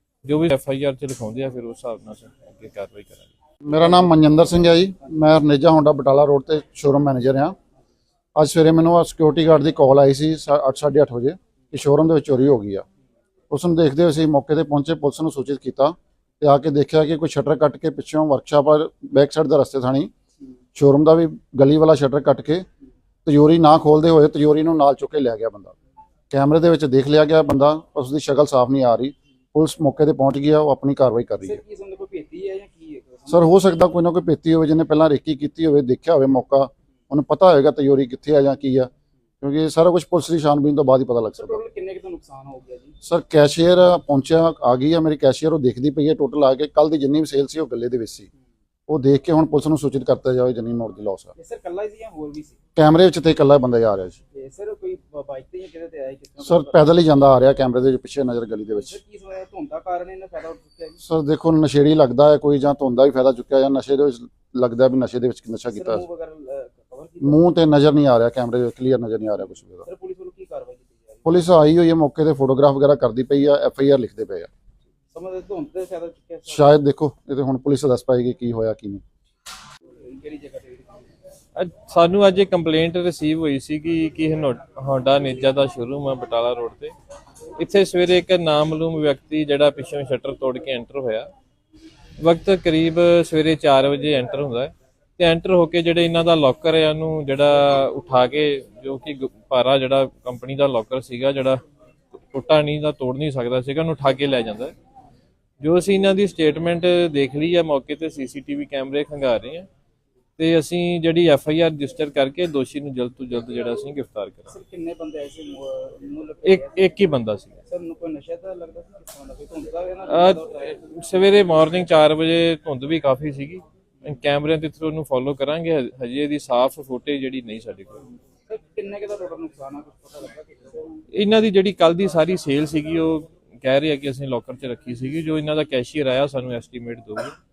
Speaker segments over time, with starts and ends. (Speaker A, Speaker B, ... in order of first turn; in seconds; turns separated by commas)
Speaker A: 0.2-3.3, Speaker B: 3.6-7.5, Speaker B: 8.3-12.8, Speaker B: 13.5-20.1, Speaker B: 20.7-22.6, Speaker B: 23.2-25.7, Speaker B: 26.3-31.6, Speaker C: 31.4-33.5, Speaker B: 33.3-38.9, Speaker B: 39.4-41.6, Speaker C: 41.4-43.0, Speaker B: 43.0-48.3, Speaker B: 48.9-51.3, Speaker C: 51.4-52.6, Speaker B: 52.7-54.2, Speaker C: 54.3-56.9, Speaker B: 56.4-59.0, Speaker C: 58.7-61.0, Speaker B: 61.0-66.0, Speaker C: 65.7-67.4, Speaker B: 67.2-69.8, Speaker C: 69.8-71.3, Speaker B: 71.2-74.5, Speaker C: 75.1-76.8, Speaker B: 76.5-79.0, Speaker C: 80.0-81.0, Speaker A: 81.5-86.9, Speaker A: 87.6-91.3, Speaker A: 92.2-101.6, Speaker A: 102.2-104.7, Speaker A: 105.6-109.7, Speaker A: 110.4-114.5, Speaker C: 114.5-116.9, Speaker A: 116.4-117.6, Speaker C: 117.7-120.9, Speaker A: 120.1-128.0, Speaker C: 128.5-131.0, Speaker A: 131.1-137.3